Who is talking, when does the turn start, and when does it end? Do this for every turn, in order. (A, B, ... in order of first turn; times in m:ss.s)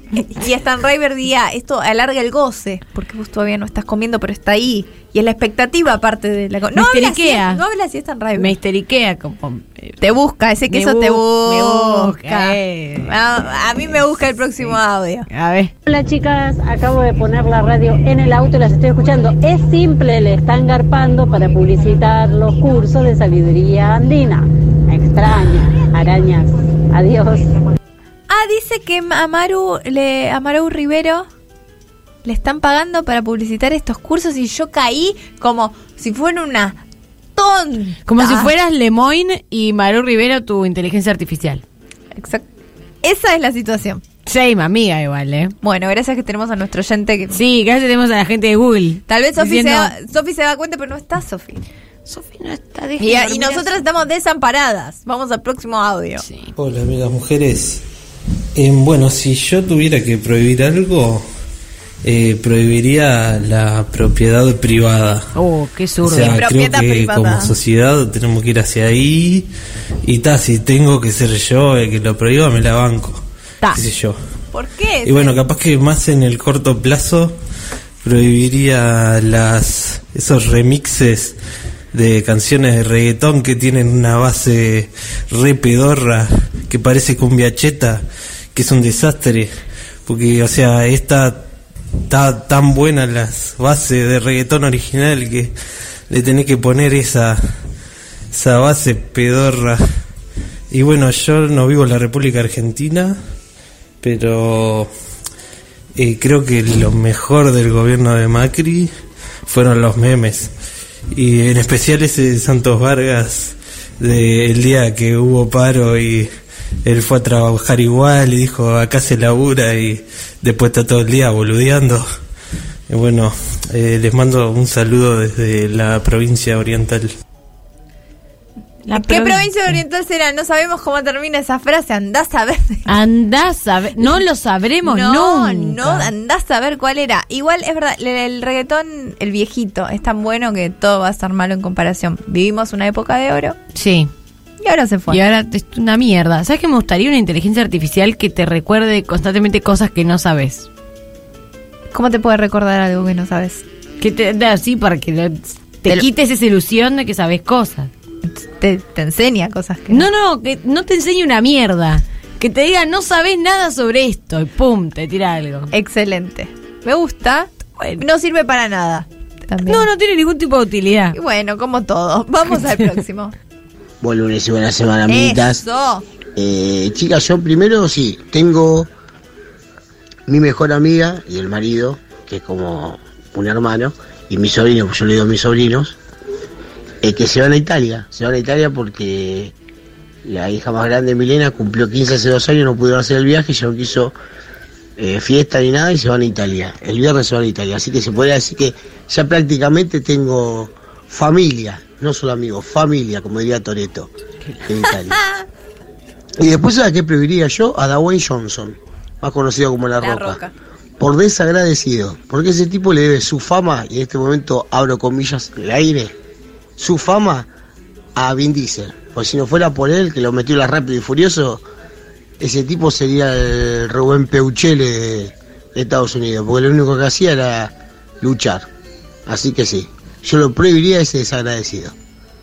0:00.1-0:08.5 A
0:06.7-0:07.6 B
0:08.4-0:10.0 B
0:10.0-0:15.3 A
0:10.7-0:13.1 B
0:15.3-0:15.7 B
0:15.8-0:27.5 C
0:28.3-0:31.3 A
0:32.2-0:36.8 A
0:37.4-0:38.5 A
0:38.0-0:41.6 B
0:42.2-0:42.4 A
0:43.0-0:44.0 A
0:44.2-0:45.6 B
0:45.6-0:47.4 A
0:47.3-0:49.9 B
0:49.1-0:51.6 A
0:52.0-0:53.8 B
0:53.0-0:56.2 A
0:56.2-0:56.5 B
0:56.5-0:57.8 D
0:58.5-1:01.3 D
1:02.0-1:05.2 D
1:05.3-1:06.4 B
1:06.0-1:09.5 D
1:06.3-1:07.5 A
1:10.0-1:14.2 D
1:14.5-1:15.4 A
1:15.0-1:17.3 D
1:18.0-1:21.4 D
1:21.9-1:28.0 D
1:28.5-1:29.5 D
1:30.0-1:31.4 D
1:32.1-1:35.5 D
1:36.1-1:37.4 D
1:38.3-1:39.8 D
1:40.7-1:43.2 D
1:44.0-1:44.9 D
1:46.0-1:48.9 D
1:49.4-1:50.5 D
1:51.1-1:56.3 D
1:56.8-2:02.0 D
2:02.9-2:07.1 D
2:08.8-2:09.5 B
2:08.9-2:13.0 A
2:12.8-2:16.1 B
2:14.8-2:23.6 A
2:23.7-2:24.1 B
2:24.6-2:25.2 A
2:25.1-2:30.7 B
2:31.9-2:33.6 A
2:34.0-2:37.9 B
2:38.2-2:40.1 A
2:39.9-2:45.7 B
2:45.7-2:49.8 A
2:49.6-2:51.2 B
2:51.1-2:53.3 A
2:54.0-2:55.6 E
2:55.1-2:56.0 A
2:56.4-2:58.9 E
3:00.3-3:06.0 E
3:07.0-3:09.5 E
3:10.2-3:14.1 E
3:15.0-3:24.1 E
3:24.4-3:24.7 B
3:24.7-3:25.2 E
3:26.4-3:30.4 E
3:30.0-3:30.5 A
3:31.0-3:36.1 E
3:36.8-3:37.5 E
3:38.2-3:41.6 E
3:42.4-3:48.6 E
3:49.2-3:51.9 E